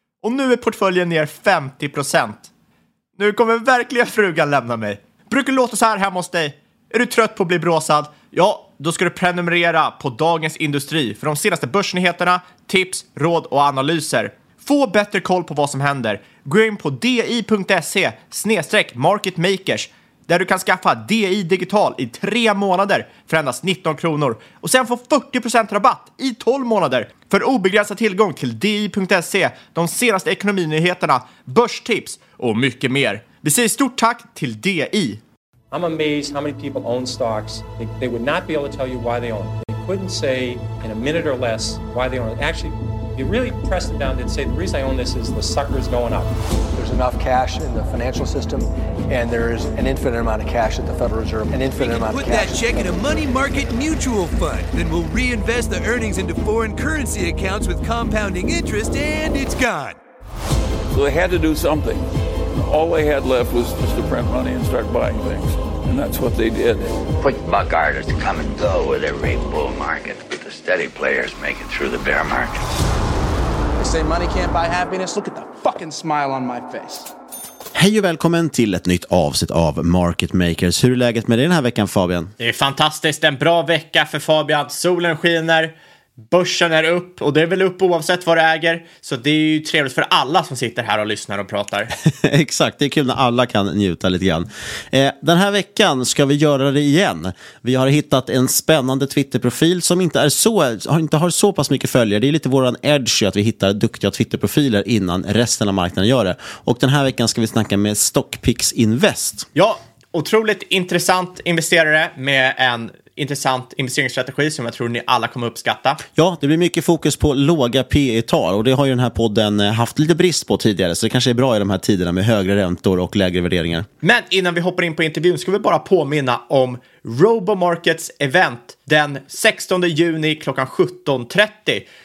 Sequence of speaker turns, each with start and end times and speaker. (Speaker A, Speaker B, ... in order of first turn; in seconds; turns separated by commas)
Speaker A: 0.2-2.5, Speaker A: 3.2-35.2, Speaker B: 35.7-46.3, Speaker C: 46.8-53.0, Speaker D: 51.7-60.0, Speaker E: 60.9-67.1, Speaker F: 67.2-72.6, Speaker G: 73.8-77.1, Speaker H: 77.7-82.3, Speaker A: 82.4-85.7, Speaker A: 86.3-91.9, Speaker H: 92.2-109.5, Speaker A: 109.5-116.0, Speaker H: 116.1-123.9, Speaker A: 124.0-131.8